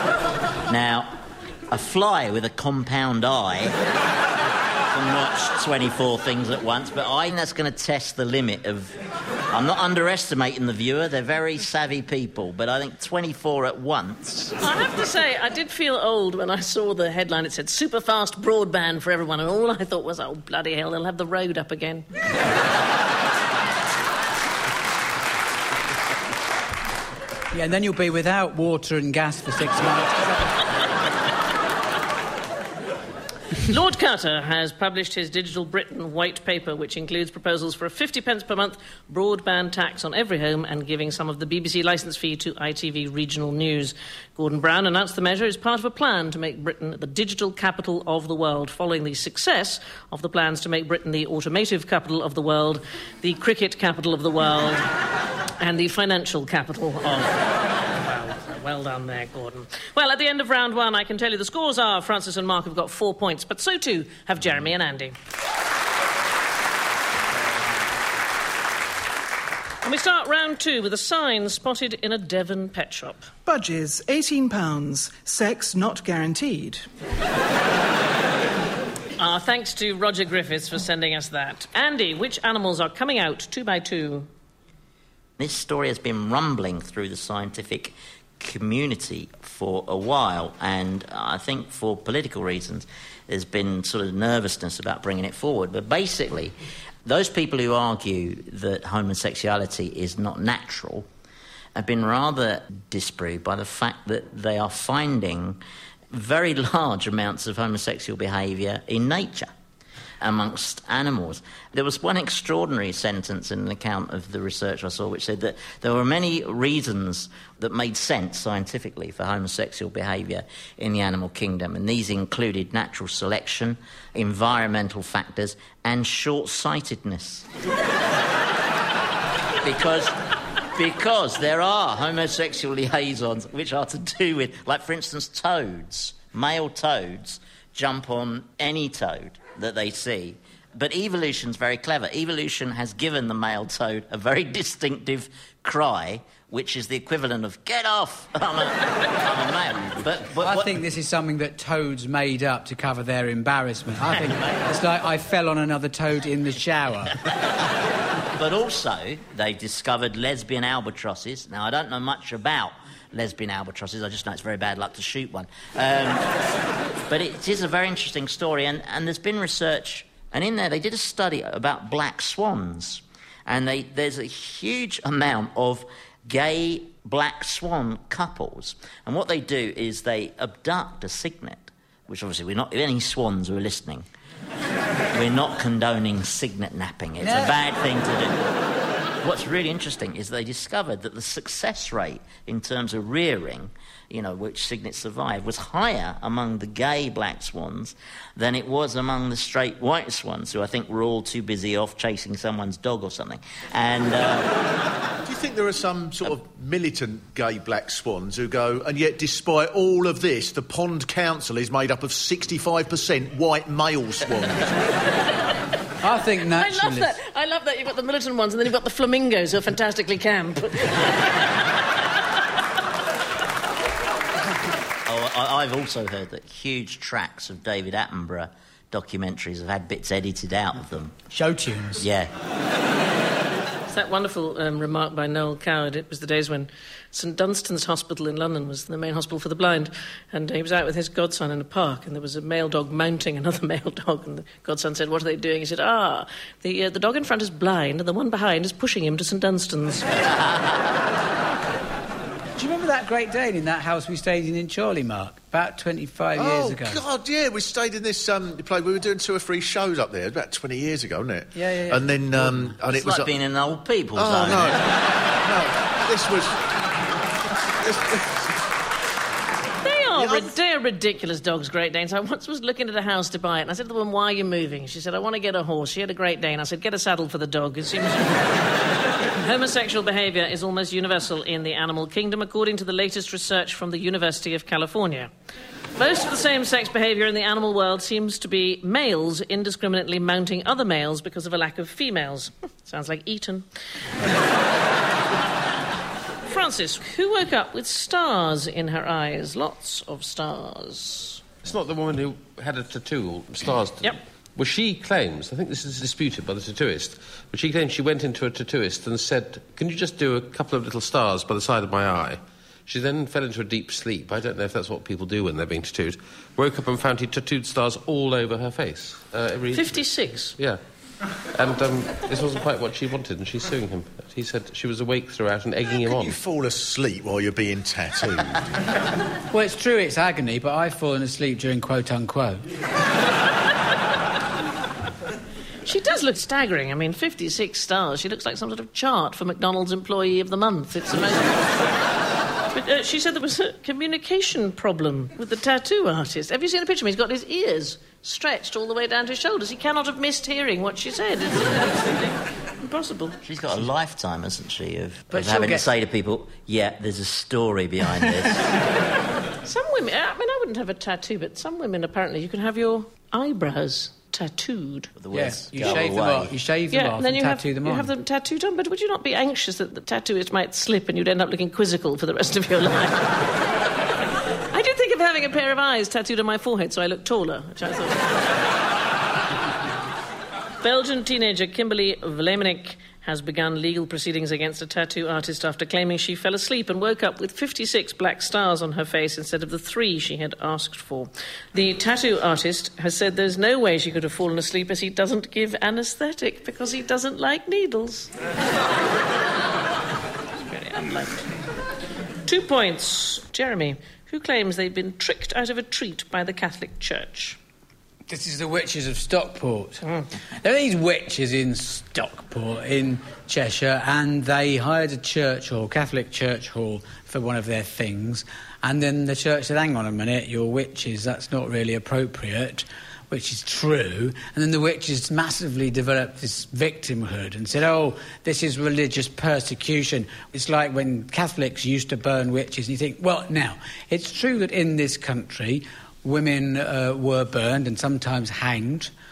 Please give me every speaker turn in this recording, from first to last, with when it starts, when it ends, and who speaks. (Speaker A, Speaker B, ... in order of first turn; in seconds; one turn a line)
Speaker A: 0.7-3.8
Speaker A: 4.9-8.9
Speaker A: 9.5-14.6
Speaker B: 14.6-22.1
Speaker C: 27.5-30.5
Speaker B: 33.6-54.9
Speaker B: 55.6-65.1
Speaker B: 69.8-73.3
Speaker D: 73.5-76.8
Speaker B: 79.2-84.3
Speaker A: 85.4-96.5
Speaker A: 97.0-101.1
Speaker A: 101.7-105.6
Speaker A: 106.1-109.5
Speaker A: 110.2-127.5
Speaker A: 129.6-130.1
Speaker A: 130.8-150.8
Speaker C: 150.4-157.2
Speaker A: 158.3-166.3
Speaker A: 167.1-184.1
Speaker A: 185.1-188.5
Speaker C: 187.2-187.6
Speaker A: 189.2-204.5
Speaker E: 205.2-214.7
Speaker C: 216.0-217.1
Speaker B: 216.5-221.2
Speaker A: 225.0-231.2
Speaker C: 231.3-232.0
Speaker A: 232.0-232.3
Speaker B: 233.9-250.2
Speaker C: 252.6-257.0
Speaker E: 256.3-263.3
Speaker C: 261.6-262.7
Speaker A: 262.9-264.8
Speaker E: 264.1-266.6
Speaker E: 267.8-268.5
Speaker B: 269.8-278.5
Speaker E: 270.2-270.5
Speaker B: 279.3-285.3
Speaker B: 286.0-293.6
Speaker B: 296.4-301.4
Speaker F: 301.6-320.8
Speaker B: 319.7-320.6
Speaker F: 321.5-326.4
Speaker E: 326.0-328.7
Speaker C: 329.5-332.6
Speaker B: 335.9-341.6
Speaker B: 342.7-353.4
Speaker A: 353.4-358.6
Speaker C: 355.3-355.8
Speaker B: 359.6-365.1
Speaker A: 365.2-366.5
Speaker C: 365.3-368.1
Speaker B: 366.9-373.3
Speaker B: 374.7-378.3
Speaker B: 380.8-398.3
Speaker B: 400.6-401.5
Speaker B: 402.4-407.6
Speaker C: 408.3-439.1